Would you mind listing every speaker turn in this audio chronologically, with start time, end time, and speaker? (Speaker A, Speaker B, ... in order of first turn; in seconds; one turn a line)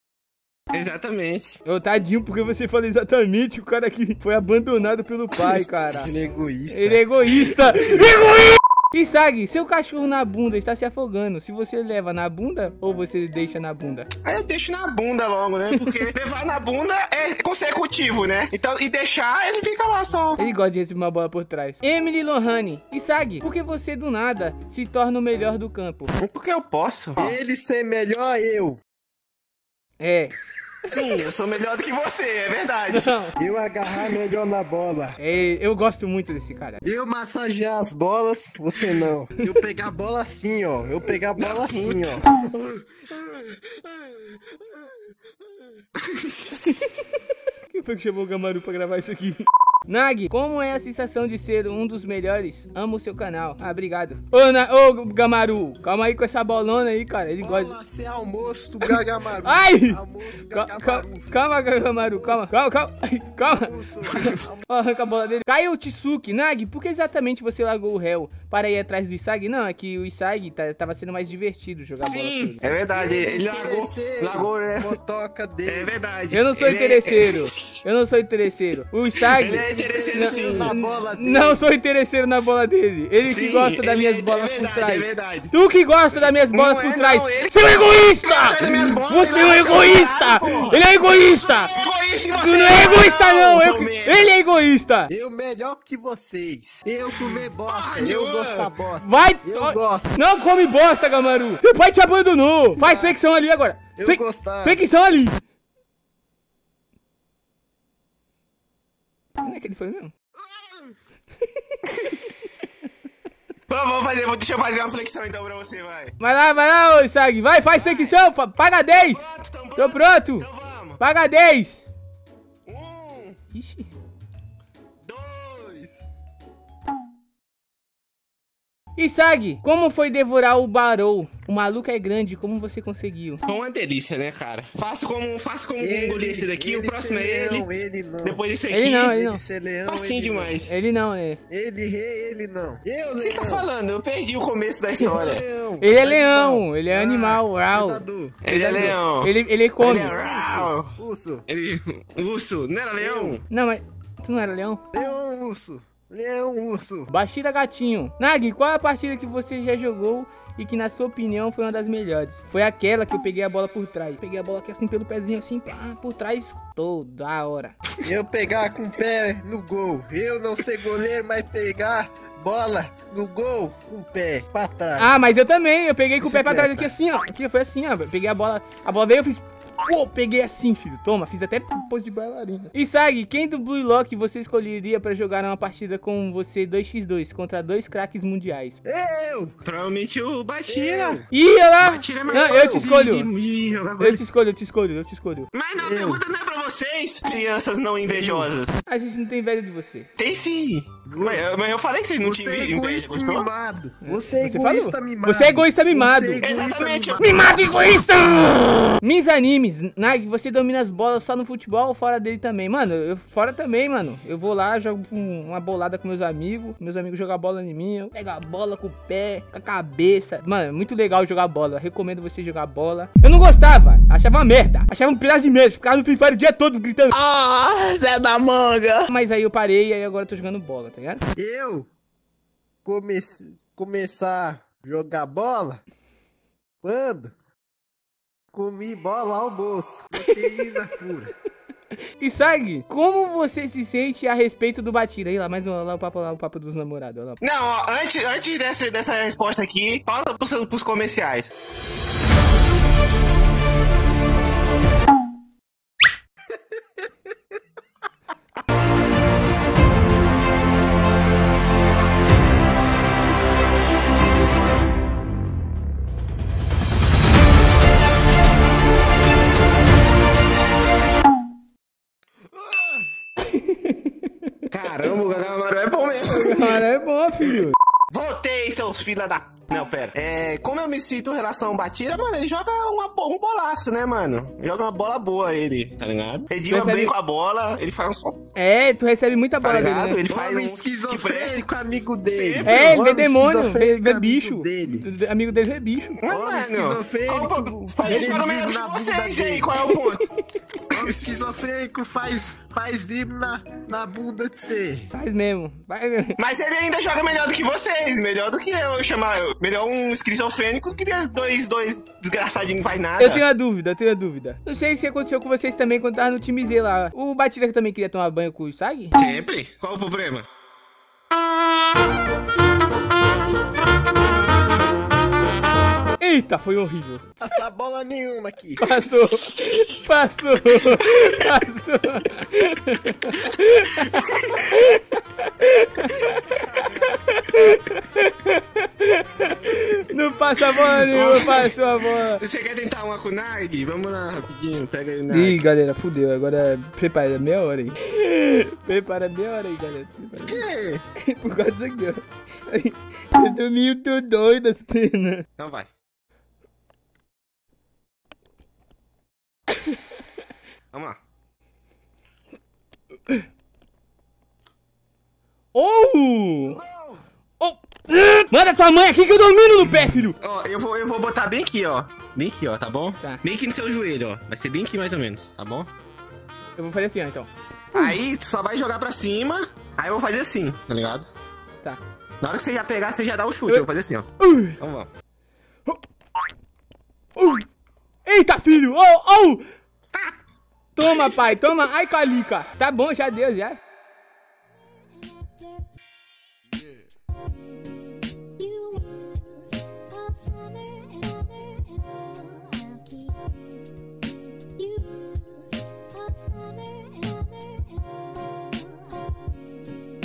Speaker A: 0.7-1.5
Speaker B: 1.6-6.1
Speaker C: 5.4-7.8
Speaker B: 6.7-14.1
Speaker A: 14.2-20.4
Speaker B: 20.4-26.1
Speaker A: 26.2-27.4
Speaker C: 27.2-28.8
Speaker B: 30.0-30.3
Speaker A: 30.9-33.1
Speaker B: 32.9-33.3
Speaker C: 33.4-35.2
Speaker B: 35.2-36.8
Speaker C: 36.8-42.3
Speaker A: 41.4-43.6
Speaker A: 46.0-46.7
Speaker B: 47.7-57.8
Speaker C: 57.4-61.3
Speaker B: 58.8-72.8
Speaker C: 62.1-62.5
Speaker C: 63.5-64.7
Speaker A: 64.0-64.4
Speaker A: 72.1-74.9
Speaker C: 72.9-75.9
Speaker A: 75.7-77.8
Speaker B: 76.3-91.7
Speaker A: 79.2-80.7
Speaker C: 79.7-81.6
Speaker A: 83.2-85.5
Speaker A: 86.5-94.3
Speaker B: 92.3-95.1
Speaker C: 95.1-100.1
Speaker A: 97.1-98.7
Speaker B: 99.0-105.4
Speaker C: 102.8-103.2
Speaker C: 104.0-104.8
Speaker B: 109.4-110.1
Speaker C: 110.5-110.9
Speaker A: 111.9-112.2
Speaker A: 113.7-116.1
Speaker B: 116.2-120.5
Speaker A: 117.8-118.2
Speaker A: 118.9-121.0
Speaker B: 121.0-121.9
Speaker A: 122.7-123.4
Speaker B: 123.5-123.9
Speaker A: 125.0-126.0
Speaker B: 129.0-133.4
Speaker A: 133.5-137.7
Speaker C: 135.8-138.4
Speaker A: 138.2-139.1
Speaker B: 138.7-139.4
Speaker C: 139.0-140.6
Speaker A: 139.9-140.7
Speaker B: 140.7-141.4
Speaker C: 141.5-143.7
Speaker A: 143.2-145.4
Speaker C: 145.0-149.0
Speaker B: 145.8-150.2
Speaker A: 148.4-153.4
Speaker C: 149.9-151.4
Speaker C: 153.0-153.4
Speaker B: 153.5-154.8
Speaker C: 154.9-157.1
Speaker B: 157.1-167.8
Speaker C: 168.0-175.2
Speaker B: 175.0-188.8
Speaker C: 176.2-176.9
Speaker C: 188.8-189.6
Speaker A: 189.6-191.2
Speaker C: 190.7-191.3
Speaker B: 191.3-193.3
Speaker A: 191.8-194.2
Speaker B: 194.0-195.5
Speaker A: 195.5-198.7
Speaker C: 195.8-196.2
Speaker C: 198.1-198.5
Speaker B: 198.9-200.1
Speaker A: 200.2-203.5
Speaker C: 201.1-201.5
Speaker C: 202.2-207.4
Speaker B: 204.0-206.4
Speaker A: 206.4-207.6
Speaker B: 207.2-227.2
Speaker D: 227.1-229.1
Speaker B: 229.1-231.2
Speaker C: 231.4-231.9
Speaker C: 232.8-235.8
Speaker C: 236.8-237.3
Speaker C: 238.5-241.3
Speaker B: 242.2-247.4
Speaker A: 247.4-251.5
Speaker C: 272.6-272.9
Speaker B: 273.5-274.2
Speaker A: 274.7-276.9
Speaker B: 276.3-277.8
Speaker A: 278.1-288.4
Speaker B: 286.7-287.1
Speaker B: 288.6-290.2
Speaker A: 289.6-291.6
Speaker C: 290.3-295.1
Speaker A: 292.2-293.0
Speaker B: 292.6-296.2
Speaker A: 296.2-300.3
Speaker C: 296.3-299.7
Speaker B: 298.1-298.4
Speaker A: 300.9-301.3
Speaker C: 300.9-305.1
Speaker B: 305.1-306.4
Speaker A: 306.4-313.4
Speaker B: 313.2-319.2
Speaker A: 319.1-320.5
Speaker B: 326.2-327.5
Speaker C: 327.4-329.2
Speaker B: 328.8-342.4
Speaker A: 334.0-334.8
Speaker C: 336.5-337.2
Speaker C: 339.3-340.0
Speaker A: 340.7-345.6
Speaker B: 345.3-355.4
Speaker A: 350.4-351.0
Speaker A: 355.6-355.9
Speaker B: 359.7-360.0
Speaker A: 360.9-361.2
Speaker B: 365.7-366.8
Speaker A: 366.7-367.2
Speaker B: 367.6-370.4
Speaker A: 369.9-375.9
Speaker B: 376.8-378.2
Speaker A: 377.9-381.3
Speaker A: 382.4-385.1
Speaker B: 384.4-384.8
Speaker B: 387.4-387.7
Speaker B: 388.2-389.6
Speaker B: 391.0-393.8
Speaker A: 391.1-391.4
Speaker D: 398.6-399.3
Speaker D: 400.1-403.5
Speaker D: 404.8-405.3
Speaker D: 406.2-409.8